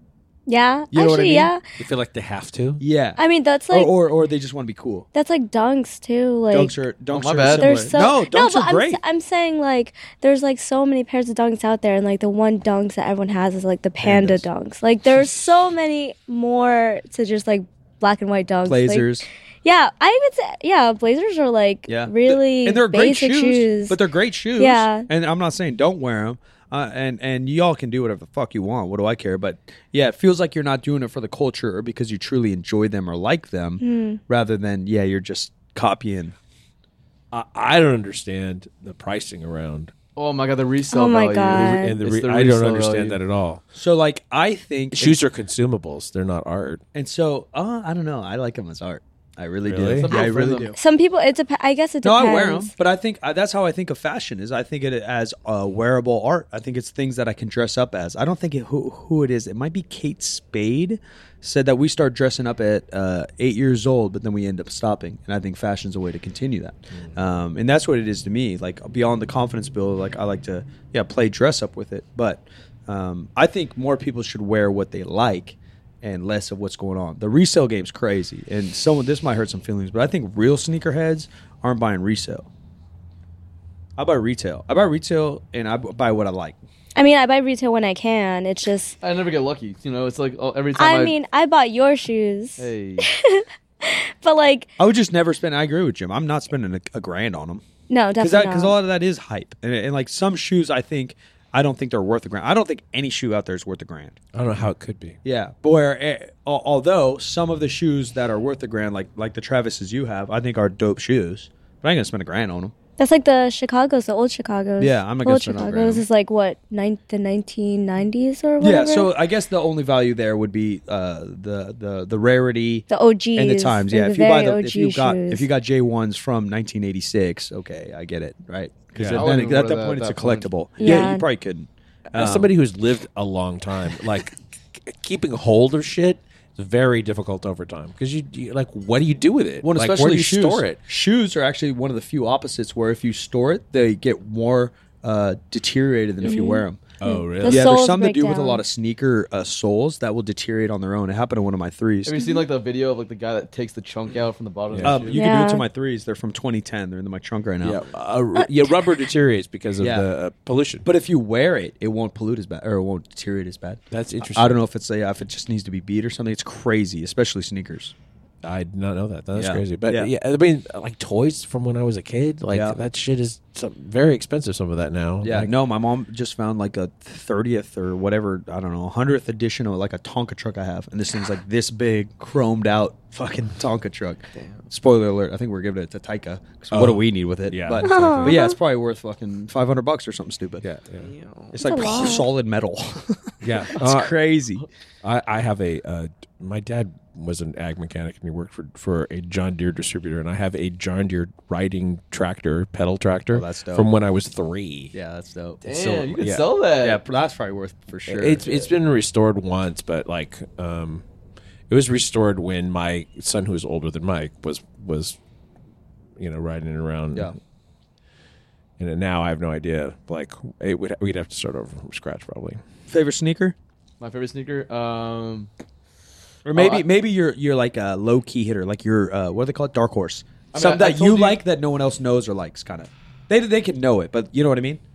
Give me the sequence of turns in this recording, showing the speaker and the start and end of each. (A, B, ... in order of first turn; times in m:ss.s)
0:00.5-0:01.6 A
0:00.9-0:01.5 B
0:01.8-0:02.8 C
0:02.8-0:05.1 B
0:03.2-0:03.9 A
0:05.1-0:06.8 A
0:06.5-0:09.0 B
0:07.1-0:08.0 D
0:07.4-0:24.0 A
0:14.0-0:14.4 B
0:18.6-0:19.2 B
0:21.9-0:36.4 B
0:24.5-0:25.1 A
0:33.8-0:34.2 A
0:37.3-0:39.9 C
0:40.2-0:43.2 D
0:40.9-0:41.9 A
0:41.5-0:43.6 C
0:43.7-0:45.2 B
0:44.9-0:46.8 C
0:46.9-0:50.7 B
0:49.6-0:50.1 C
0:50.0-0:50.8 D
0:50.7-0:52.7 A
0:52.0-1:22.5 B
1:24.0-1:26.6 B
1:27.0-1:29.0 A
1:29.0-1:31.2 D
1:30.7-1:34.7 A
1:32.6-1:33.1 D
1:34.8-1:37.6 B
1:37.9-1:38.8 A
1:38.2-1:44.2 B
1:44.3-1:45.2 C
1:45.2-1:52.7 B
1:53.0-1:59.1 A
1:54.8-1:56.0 B
1:58.6-2:12.5 B
2:02.9-2:05.5 A
2:08.9-2:09.3 C
2:09.1-2:11.1 D
2:10.8-2:11.3 A
2:12.1-2:20.8 C
2:19.6-2:26.8 B
2:26.2-2:28.6 A
2:27.0-2:27.7 C
2:27.4-2:32.2 B
2:32.0-2:35.2 D
2:34.7-2:35.1 C
2:34.8-2:37.8 B
2:35.1-2:35.6 A
2:37.6-2:40.8 C
2:39.8-2:40.0 B
2:40.8-2:47.9 B
2:43.9-2:44.6 C
2:48.4-2:55.5 C
2:49.3-2:50.1 B
2:52.5-2:52.8 B
2:55.2-3:10.6 B
3:04.3-3:04.7 D
3:06.7-3:08.4 C
3:07.8-3:08.6 A
3:10.6-3:11.1 C
3:11.0-3:11.6 D
3:11.5-3:14.6 B
3:11.6-3:12.3 A
3:13.4-3:14.1 C
3:15.0-3:24.9 C
3:23.3-3:23.9 B
3:24.9-3:25.7 B
3:25.6-3:27.0 D
3:25.8-3:26.5 C
3:26.8-3:28.5 B
3:28.1-3:31.0 C
3:31.7-3:35.2 C
3:36.2-3:37.3 C
3:38.8-3:42.6 C
3:42.9-3:43.5 B
3:44.0-3:45.5 D
3:46.4-3:54.8 B
3:46.5-3:46.8 D
3:50.5-3:51.4 D